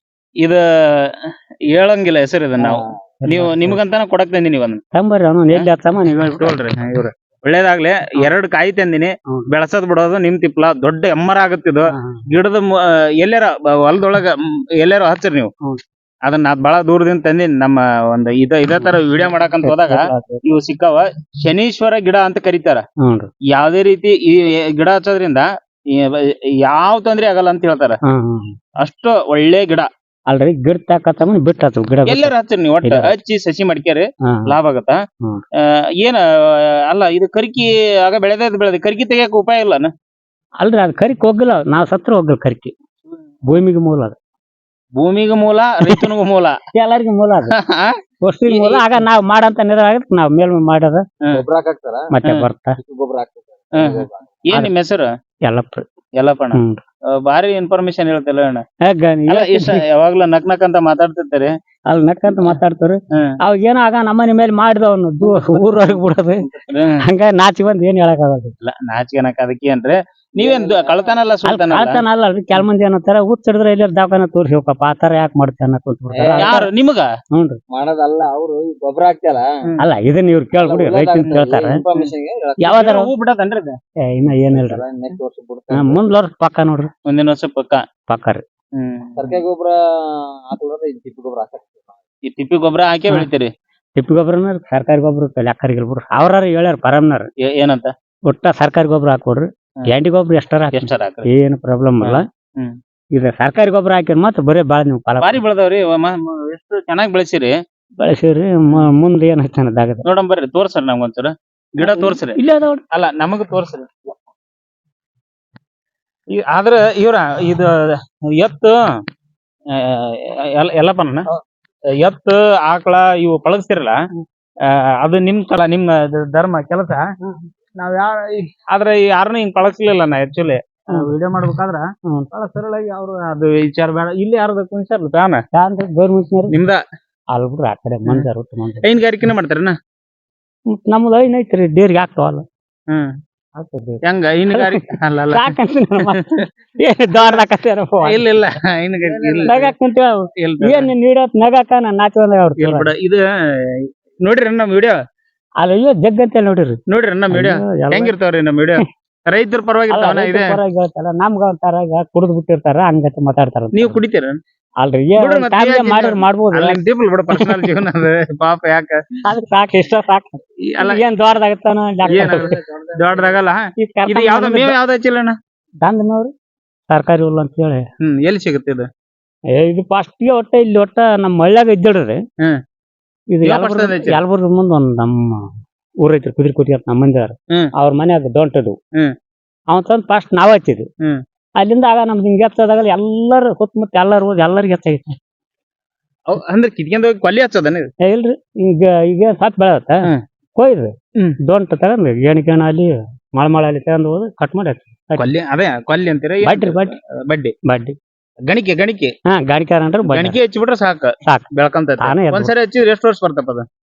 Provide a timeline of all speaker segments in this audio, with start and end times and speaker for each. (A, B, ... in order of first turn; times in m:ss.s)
0:00.4-0:04.8 A
0:03.2-0:03.8 B
0:04.9-0:06.6 B
0:05.5-0:15.5 A
0:11.9-0:12.2 B
0:16.2-0:22.8 A
0:19.6-0:20.4 B
0:23.0-0:23.3 B
0:23.5-0:28.0 A
0:28.1-0:28.5 B
0:28.8-0:29.9 A
0:30.3-0:32.3 B
0:32.0-0:35.0 A
0:32.8-0:33.1 B
0:35.6-0:39.9 A
0:40.6-0:42.7 B
0:43.5-0:44.2 B
0:45.0-0:46.6 A
0:46.7-0:47.5 B
0:47.5-0:48.0 A
0:48.2-0:51.0 B
0:48.5-0:48.9 A
0:51.3-0:52.1 C
0:52.1-0:52.8 B
0:52.8-0:54.3 C
0:53.8-0:55.1 A
0:55.4-0:55.8 B
0:56.2-0:56.6 A
0:56.5-0:56.8 B
0:57.2-0:58.6 A
0:58.9-0:59.8 B
0:59.3-1:01.5 A
1:01.9-1:06.4 B
1:05.2-1:07.0 A
1:07.0-1:08.5 B
1:08.6-1:12.0 A
1:10.4-1:11.1 C
1:11.5-1:16.7 B
1:16.1-1:16.5 C
1:16.4-1:17.1 A
1:17.3-1:17.6 B
1:17.7-1:19.5 C
1:19.8-1:21.8 B
1:20.6-1:22.7 C
1:22.6-1:23.1 B
1:22.7-1:23.8 A
1:24.1-1:24.8 B
1:24.5-1:26.0 C
1:25.7-1:26.9 B
1:27.0-1:27.8 A
1:28.1-1:28.4 B
1:28.8-1:29.3 A
1:29.2-1:32.0 C
1:32.2-1:33.5 A
1:34.0-1:37.3 B
1:37.4-1:37.9 A
1:38.3-1:42.2 B
1:40.7-1:41.3 A
1:42.0-1:42.7 A
1:43.1-1:45.4 B
1:45.2-1:47.5 A
1:48.0-1:50.0 B
1:50.0-1:52.4 A
1:51.8-1:52.8 B
1:52.9-1:54.1 A
1:56.3-1:57.7 A
1:58.4-1:58.8 A
1:59.7-2:01.2 A
2:02.0-2:04.0 A
2:04.6-2:07.1 A
2:07.8-2:15.4 A
2:15.5-2:16.5 B
2:16.5-2:16.8 A
2:17.3-2:18.8 B
2:18.8-2:19.7 A
2:20.7-2:22.4 B
2:23.6-2:28.3 B
2:24.0-2:26.2 A
2:27.2-2:27.4 A
2:28.0-2:29.6 A
2:29.4-2:32.9 B
2:30.4-2:30.9 A
2:32.6-2:34.9 A
2:35.6-2:36.8 B
2:36.9-2:40.5 A
2:37.3-2:38.1 B
2:39.9-2:44.0 B
2:43.7-2:44.4 A
2:44.8-2:47.7 B
2:45.2-2:49.0 A
2:49.2-2:52.5 B
2:50.6-2:51.0 A
2:52.0-2:55.4 A
2:52.5-2:53.3 C
2:53.8-2:54.7 B
2:55.8-2:56.3 B
2:56.9-2:57.8 B
2:58.0-2:58.9 A
2:59.5-3:02.2 B
3:03.3-3:05.5 B
3:03.4-3:04.2 A
3:06.0-3:08.8 B
3:09.7-3:10.8 B
3:11.6-3:15.2 B
3:16.3-3:17.9 A
3:18.0-3:20.0 B
3:20.6-3:20.9 B
3:21.5-3:25.3 B
3:25.2-3:27.5 A
3:26.4-3:26.9 B
3:27.7-3:28.0 B
3:28.5-3:29.1 A
3:29.3-3:30.4 B
3:30.1-3:33.6 A
3:32.0-3:32.5 B